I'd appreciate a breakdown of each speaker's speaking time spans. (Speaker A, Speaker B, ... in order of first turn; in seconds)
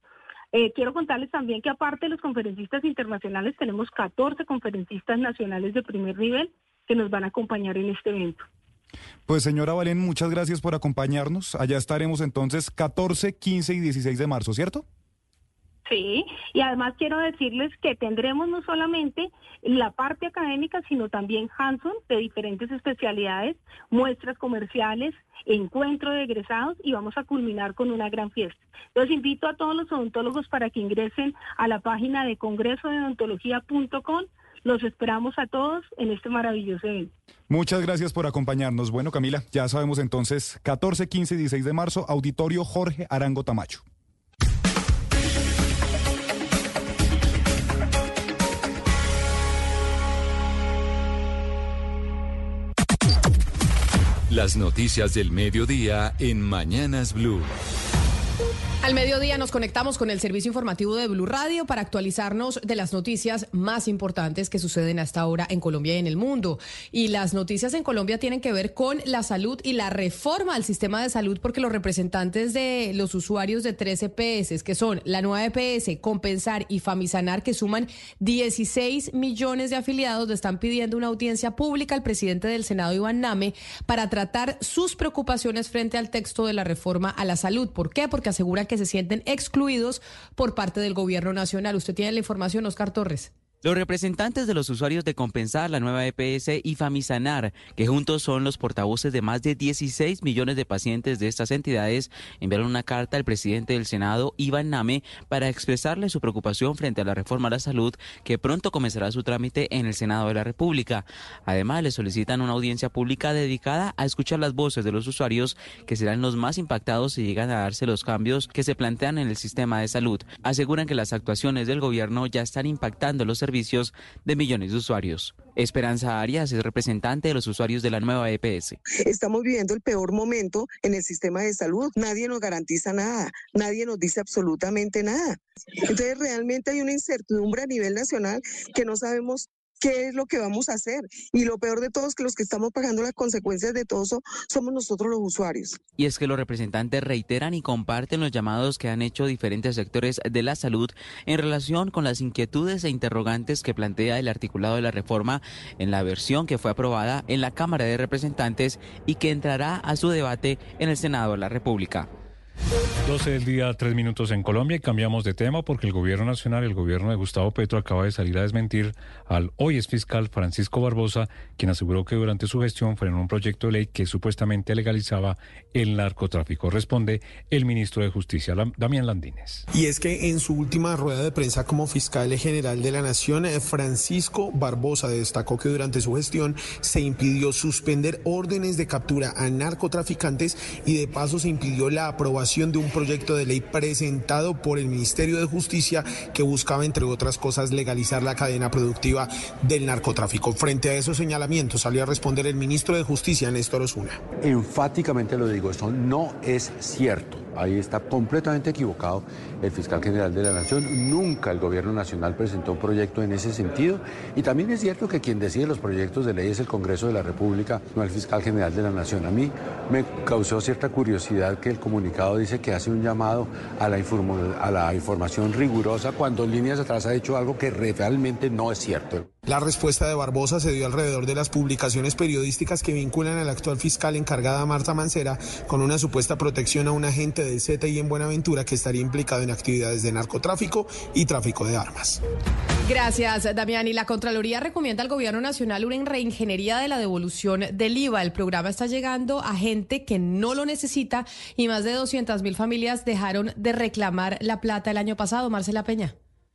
Speaker A: 0.5-8.4, 15.9-37.1
Speaker B: 9.3-14.8, 37.5-43.8
Speaker C: 54.3-57.5
Speaker D: 58.8-93.3, 242.8-256.1
Speaker E: 93.6-128.8, 146.0-162.1
Speaker F: 129.1-145.8
Speaker G: 163.1-179.6
Speaker H: 179.7-204.2, 229.4-242.2
Speaker I: 204.4-229.3